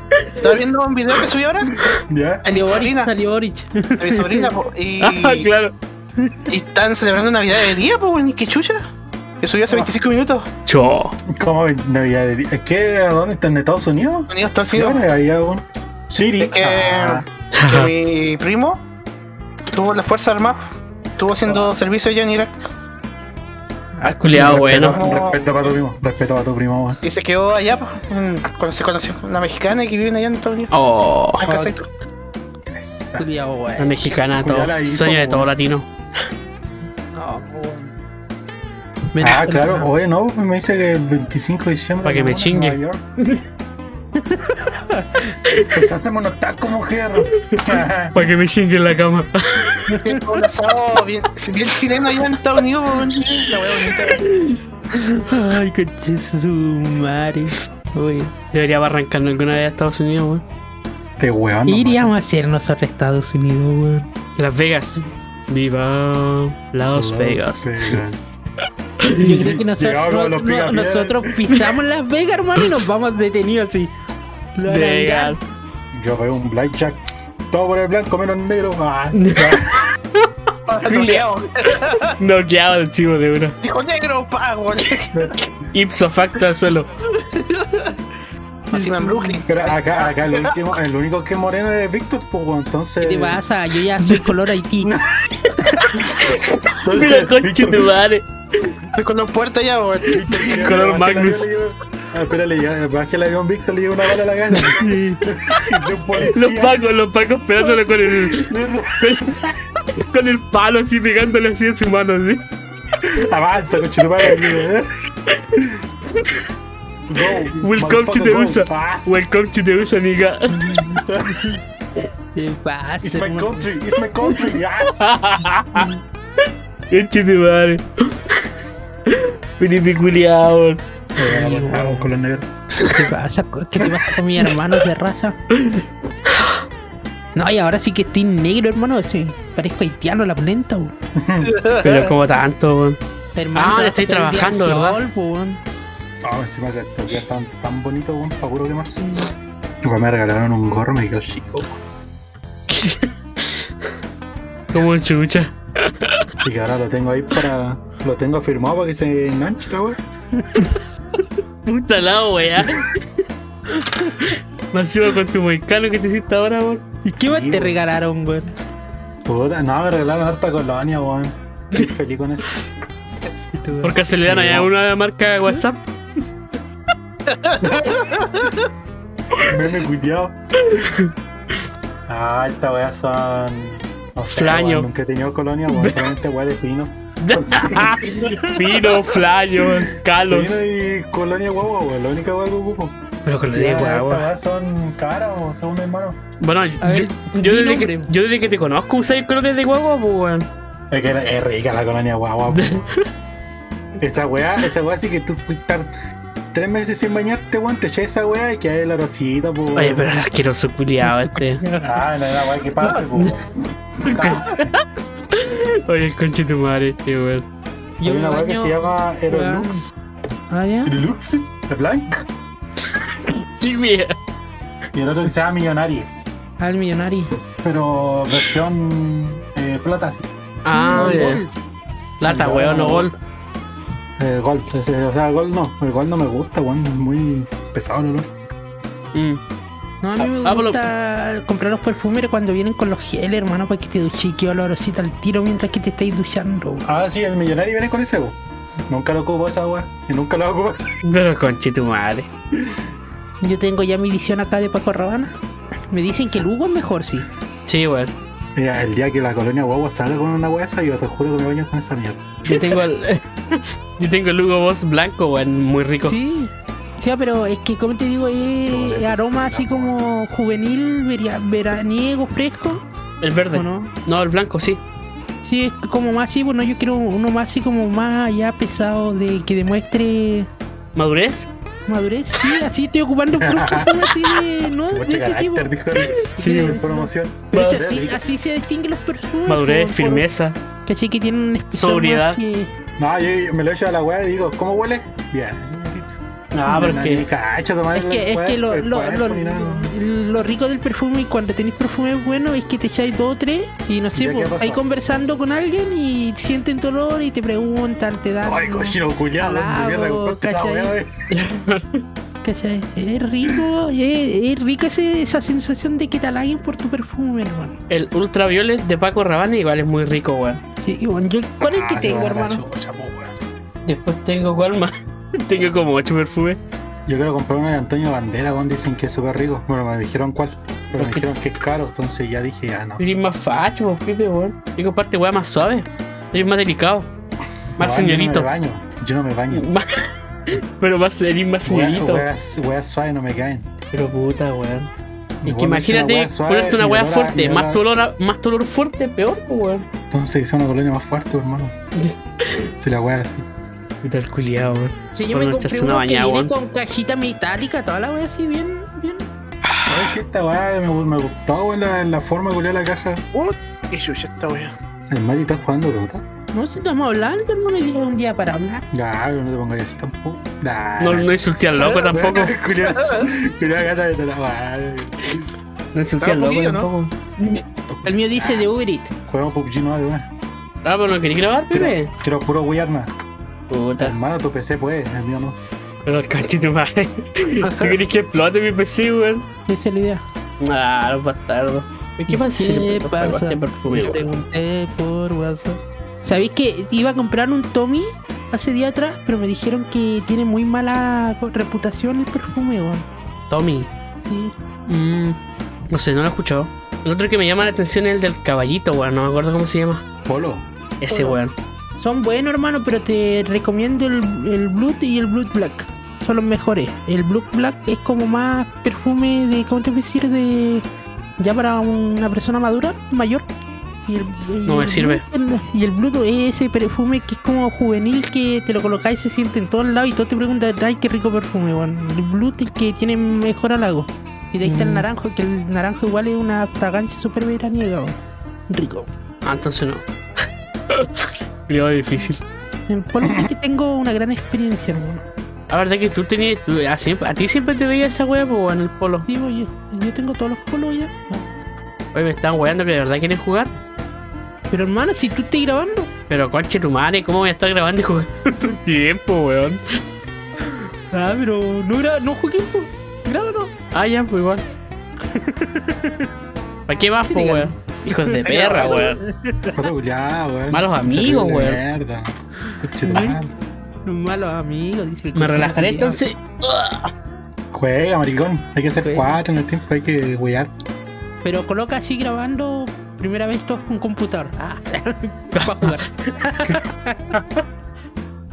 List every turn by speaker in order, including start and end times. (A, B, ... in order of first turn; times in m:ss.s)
0:00.2-0:00.4 A
0:00.4-0:01.8 B
0:01.8-0:02.4 C
0:02.4-0:03.1 B
0:02.5-0:04.5 D
0:04.0-0:05.5 B
0:05.0-0:05.7 A
0:06.2-0:06.5 D
0:06.5-0:08.8 B
0:09.4-0:10.5 B
0:10.6-0:11.2 A
0:11.3-0:17.2 C
0:14.3-0:15.0 B
0:16.4-0:18.8 B
0:17.6-0:17.9 A
0:19.7-0:20.6 B
0:21.2-0:22.5 B
0:24.0-0:24.9 D
0:24.0-0:25.0 A
0:24.3-0:27.0 C
0:24.9-0:25.7 B
0:27.0-0:30.7 B
0:30.7-0:31.5 A
0:31.4-0:31.9 B
0:31.4-0:31.7 C
0:32.7-0:33.3 C
0:33.2-0:34.0 D
0:33.8-0:35.8 A
0:34.4-0:35.5 C
0:37.1-0:37.9 D
0:39.1-0:39.9 D
0:39.2-0:43.0 C
0:42.0-0:43.4 A
0:44.2-0:45.3 D
0:45.5-0:45.8 A
0:45.7-0:48.2 C
0:48.1-0:49.9 A
0:49.9-0:50.4 D
0:50.0-0:54.2 B
0:55.0-0:58.3 D
0:58.5-1:00.4 A
1:01.2-1:02.1 C
1:01.6-1:04.1 D
1:04.4-1:08.0 A
1:06.9-1:08.4 C
1:09.0-1:09.5 A
1:09.1-1:13.9 D
1:09.2-1:11.6 C
1:14.6-1:15.4 D
1:14.6-1:15.4 A
1:15.9-1:19.9 C
1:19.2-1:19.6 A
1:20.7-1:22.2 B
1:20.8-1:21.2 A
1:22.2-1:23.6 A
1:23.6-1:25.2 B
1:25.6-1:26.9 A
1:28.7-1:29.4 D
1:28.7-1:30.5 B
1:29.5-1:33.4 C
1:33.0-1:34.9 D
1:34.0-1:34.2 A
1:35.6-1:38.7 A
1:35.9-1:37.9 C
1:38.9-1:40.7 B
1:40.1-1:46.8 C
1:40.1-1:41.5 A
1:44.5-1:45.2 D
1:46.3-1:49.4 A
1:48.0-1:49.6 C
1:50.0-1:52.4 A
1:53.0-1:54.9 C
1:56.2-1:56.4 A
1:57.1-1:59.1 C
1:57.6-2:00.6 A
2:00.5-2:01.6 C
2:02.3-2:03.7 D
2:03.0-2:04.9 C
2:04.4-2:05.9 A
2:06.9-2:08.4 A
2:09.1-2:10.8 A
2:11.2-2:12.5 C
2:11.2-2:12.1 D
2:12.8-2:15.4 D
2:15.6-2:16.6 A
2:17.3-2:20.9 D
2:21.2-2:21.5 C
2:21.5-2:21.9 B
2:21.8-2:23.0 A
2:23.3-2:25.6 D
2:23.5-2:25.0 A
2:26.2-2:29.2 C
2:29.8-2:31.8 C
2:32.7-2:33.7 A
2:34.7-2:36.3 A
2:36.4-2:40.0 C
2:40.6-2:43.2 A
2:43.7-2:44.3 D
2:44.3-2:46.8 A
2:47.0-2:48.5 D
2:47.2-2:47.8 C
2:49.2-2:52.5 C
2:53.5-2:54.0 D
2:53.8-2:55.8 A
2:54.2-2:54.7 C
2:57.3-2:58.6 B
2:57.6-2:58.0 C
2:59.4-3:00.4 C
3:00.6-3:01.1 A
3:02.1-3:08.0 C
3:04.3-3:04.9 A
3:05.7-3:06.1 A
3:07.2-3:10.6 A
3:08.2-3:09.0 D
3:10.3-3:13.0 C
3:13.2-3:14.3 A
3:13.5-3:16.2 C
3:16.4-3:20.5 A
3:16.8-3:18.1 D
3:20.9-3:22.8 C
3:22.5-3:23.0 A
3:24.0-3:25.9 C
3:26.5-3:30.0 C
3:29.7-3:31.6 A
3:31.0-3:32.1 D
3:31.8-3:33.5 C
3:32.8-3:33.0 D
3:34.0-3:37.4 A
3:34.1-3:34.7 C
3:38.0-3:39.8 D
3:38.0-3:39.9 C
3:40.5-3:40.9 D
3:40.8-3:42.2 C
3:42.8-3:44.1 A
3:44.9-3:46.1 C
3:46.6-3:47.3 D
3:47.6-3:50.2 C
3:50.6-3:51.4 A
3:50.7-3:51.5 D
3:50.9-3:51.4 C
3:52.2-3:53.2 A
3:52.2-3:53.1 C
3:54.2-3:58.3 C
3:59.1-3:59.4 A
4:00.0-4:06.8 D
4:00.2-4:00.9 A
4:06.8-4:08.4 C
4:08.9-4:10.8 C
4:11.0-4:12.3 A
4:13.4-4:15.3 D
4:15.9-4:17.3 D
4:17.6-4:18.1 A
4:18.6-4:22.5 C
4:22.4-4:26.2 A
4:26.0-4:32.8 D
4:28.7-4:30.0 C
4:33.2-4:34.8 A
4:33.5-4:33.9 D
4:35.4-4:40.5 D
4:41.0-4:41.5 A
4:41.8-4:50.2 D
4:43.4-4:44.1 C
4:44.9-4:48.2 C
4:46.4-4:46.8 A
4:47.5-4:47.8 A
4:49.5-4:50.6 A
4:50.8-4:52.7 D
4:51.7-4:52.4 A
4:53.0-5:00.0 C
4:56.5-4:57.2 A
4:56.7-4:57.0 D
4:57.9-5:11.0 D
5:04.1-5:04.8 C
5:08.4-5:11.2 C
5:11.3-5:12.0 A
5:12.4-5:17.8 D
5:17.9-5:20.6 A
5:20.8-5:22.6 D
5:21.6-5:23.4 C
5:23.8-5:26.6 A
5:27.1-5:33.1 C
5:30.9-5:31.3 A
5:33.0-5:37.1 A
5:37.8-5:38.5 A
5:37.8-5:39.7 C
5:39.5-5:42.3 A
5:41.6-5:43.7 C
5:43.9-5:44.9 A
5:45.4-5:47.8 C
5:45.4-5:49.8 A
5:50.1-5:51.7 C
5:52.0-5:52.7 A
5:52.8-5:53.4 C
5:54.0-5:56.5 A
5:55.1-5:59.3 D
5:59.9-6:03.2 C
6:03.3-6:04.7 B
6:05.1-6:06.2 C
6:06.5-6:08.8 D
6:08.9-6:15.5 C
6:11.0-6:12.6 A
6:12.8-6:13.3 B
6:15.9-6:17.6 A
6:16.2-6:16.9 B
6:17.9-6:18.6 C
6:18.0-6:19.1 D
6:19.3-6:20.3 C
6:20.8-6:22.1 A
6:21.7-6:23.1 C
6:23.7-6:24.2 A
6:24.0-6:25.6 C
6:26.0-6:29.4 A
6:29.7-6:30.2 D
6:30.6-6:34.2 A
6:32.3-6:43.1 D
6:43.5-6:43.9 A
6:44.2-6:44.5 D
6:44.9-6:45.4 A
6:45.9-6:50.0 A
6:50.3-6:50.6 C
6:51.0-6:51.5 A
6:51.1-6:51.4 D
6:52.0-7:00.8 D
7:01.4-7:03.5 D
7:04.0-7:18.1 D
7:04.6-7:05.2 A
7:14.6-7:15.1 A
7:18.7-7:19.1 D
7:19.4-7:20.0 A
7:20.9-7:22.4 A
7:22.9-7:25.2 D
7:25.7-7:29.3 A
7:29.3-7:31.5 D
7:32.1-7:33.7 A
7:34.7-7:36.1 D
7:36.3-7:39.8 A
7:40.6-7:43.7 D
7:43.9-7:44.6 A
7:45.3-7:46.3 D
7:46.9-7:49.2 A
7:47.3-7:49.8 D
7:48.4-7:49.1 B
7:49.7-7:53.5 C
7:50.7-7:51.8 A
7:53.0-7:53.4 D
7:54.0-7:56.2 D
7:55.3-7:57.1 A
7:57.7-8:00.7 C
7:59.0-7:59.4 D
8:01.4-8:07.3 D
8:05.5-8:06.0 A
8:06.6-8:07.6 A